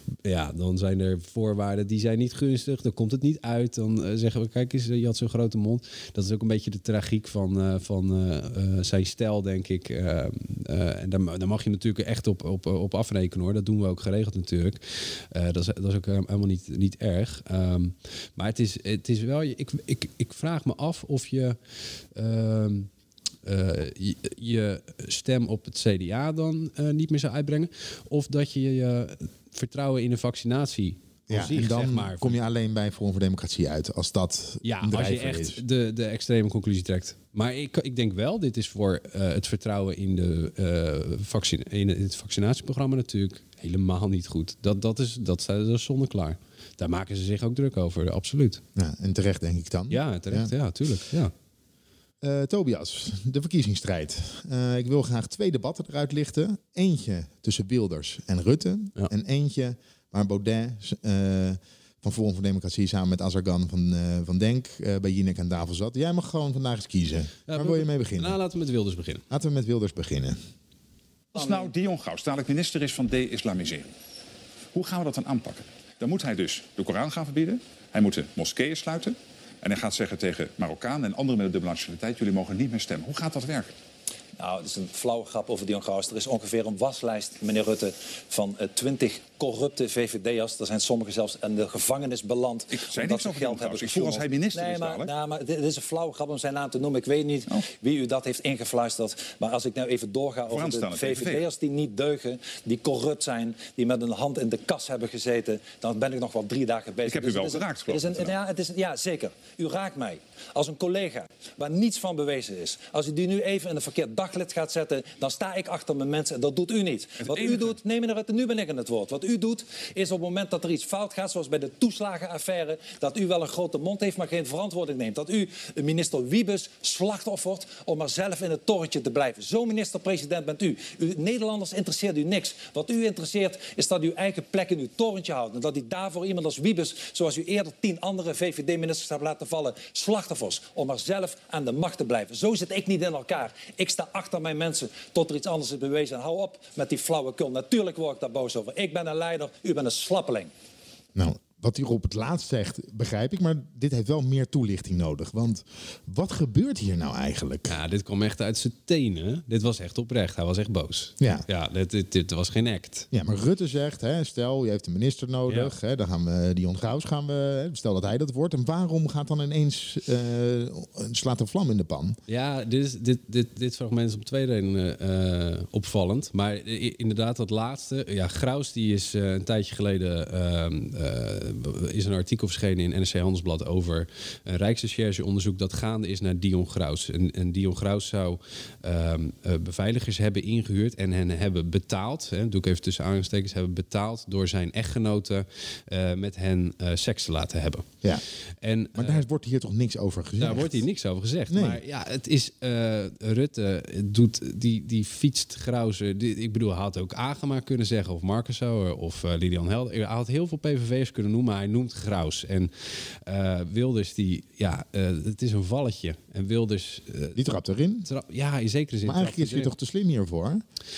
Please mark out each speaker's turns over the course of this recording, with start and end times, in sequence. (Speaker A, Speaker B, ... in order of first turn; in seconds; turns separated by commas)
Speaker A: 0.2-14.8, Speaker A: 15.3-21.6, Speaker A: 22.1-22.9, Speaker A: 23.4-32.4, Speaker B: 31.3-35.6, Speaker A: 34.6-48.6, Speaker B: 48.8-50.5, Speaker A: 49.9-51.3, Speaker B: 52.2-68.4, Speaker A: 67.5-69.2, Speaker B: 69.3-70.4, Speaker C: 71.3-73.9, Speaker D: 71.4-71.7, Speaker C: 74.7-83.7, Speaker D: 84.4-150.5, Speaker C: 92.7-95.1, Speaker C: 100.5-101.5, Speaker C: 107.0-108.3, Speaker C: 117.2-117.8, Speaker B: 151.1-157.7, Speaker A: 157.7-163.1, Speaker B: 161.2-161.4, Speaker B: 163.1-172.2, Speaker A: 165.4-165.7, Speaker A: 172.3-197.9, Speaker A: 198.6-199.2, Speaker B: 198.9-200.8, Speaker A: 200.4-217.4, Speaker B: 201.5-201.8, Speaker B: 217.3-218.1, Speaker A: 218.0-219.7, Speaker B: 219.0-220.6